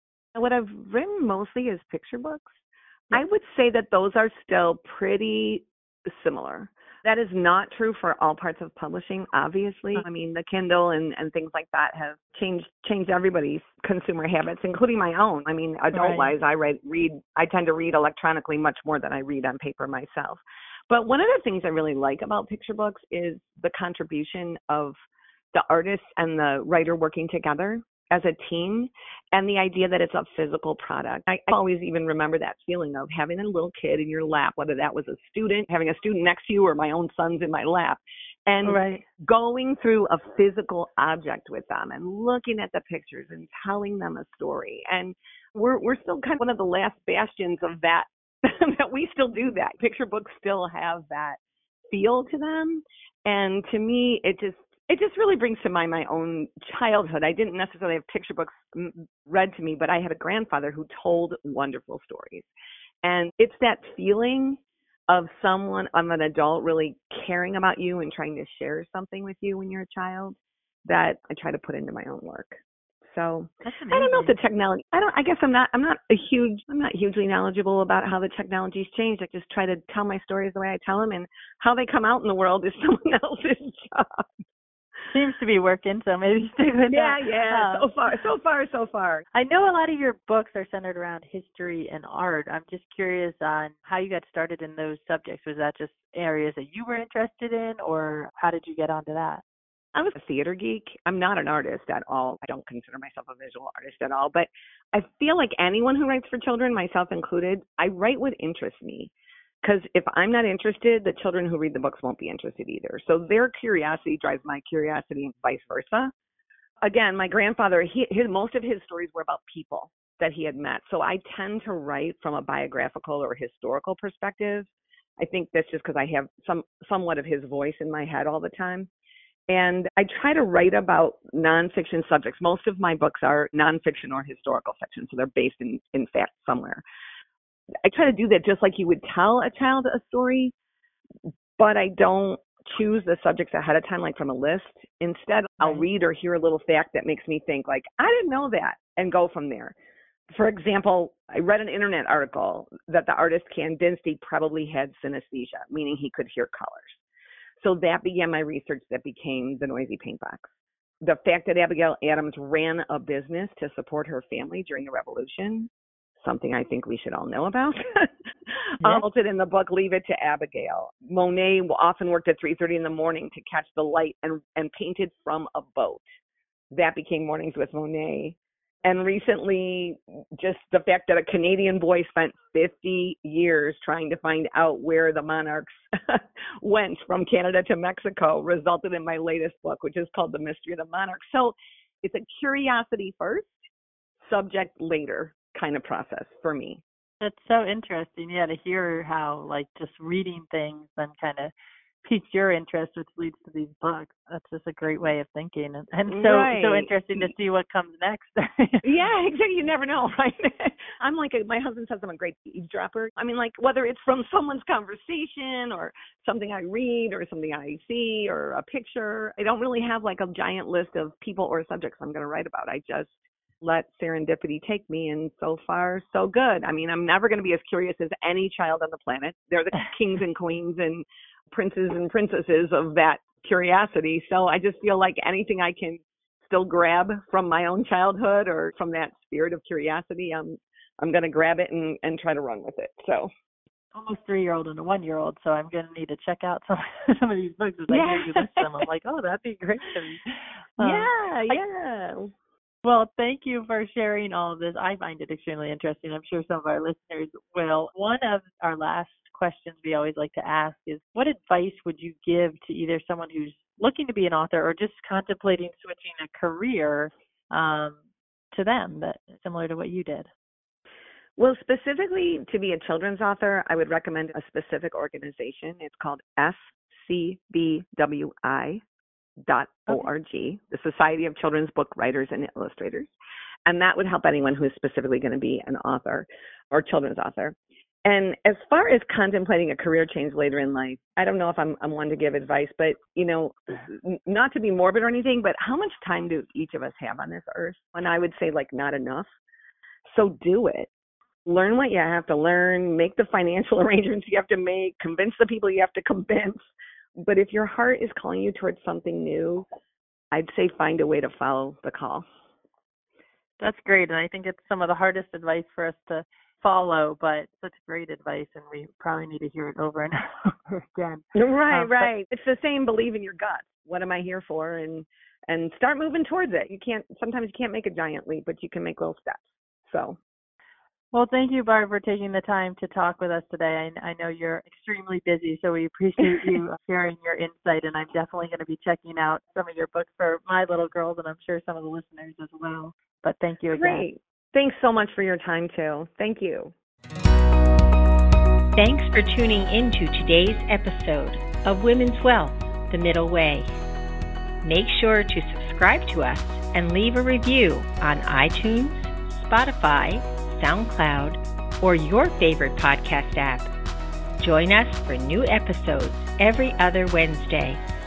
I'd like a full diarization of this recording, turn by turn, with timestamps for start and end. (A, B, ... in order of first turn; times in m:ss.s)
0:00.4-0:25.0 A
0:15.9-0:16.3 B
0:25.5-0:51.4 A
0:38.6-0:39.0 B
0:51.9-1:02.5 A
1:03.0-1:24.2 A
1:13.6-1:14.4 B
1:25.1-1:28.2 B
1:26.9-1:29.2 A
1:29.3-1:39.4 B
1:40.0-1:56.1 A
1:56.8-2:08.9 A
2:09.5-2:16.8 A
2:17.8-2:20.5 A
2:21.6-2:29.7 A
2:25.6-2:25.9 B
2:30.3-2:37.0 A
2:37.6-2:40.5 A
2:41.0-2:45.7 A
2:46.2-2:56.0 A
2:56.7-3:13.6 A
3:14.2-3:16.8 A
3:17.2-3:28.9 B
3:26.1-3:27.3 A
3:28.8-4:03.3 A
4:03.9-4:11.6 B
4:07.9-4:08.7 A
4:10.8-4:12.3 A
4:12.8-4:28.0 B
4:28.5-4:30.3 B
4:31.4-4:38.8 A
4:39.5-4:43.1 A
4:43.7-4:59.3 A
5:00.1-5:00.9 A
5:01.5-5:06.6 A
5:07.2-5:09.7 A
5:10.3-5:12.3 A
5:13.6-5:22.1 B
5:21.4-5:30.2 A
5:31.1-5:44.1 B
5:36.2-5:36.6 A
5:43.7-5:46.7 A
5:48.8-5:53.8 C
5:54.6-6:03.7 C
6:04.4-6:07.8 C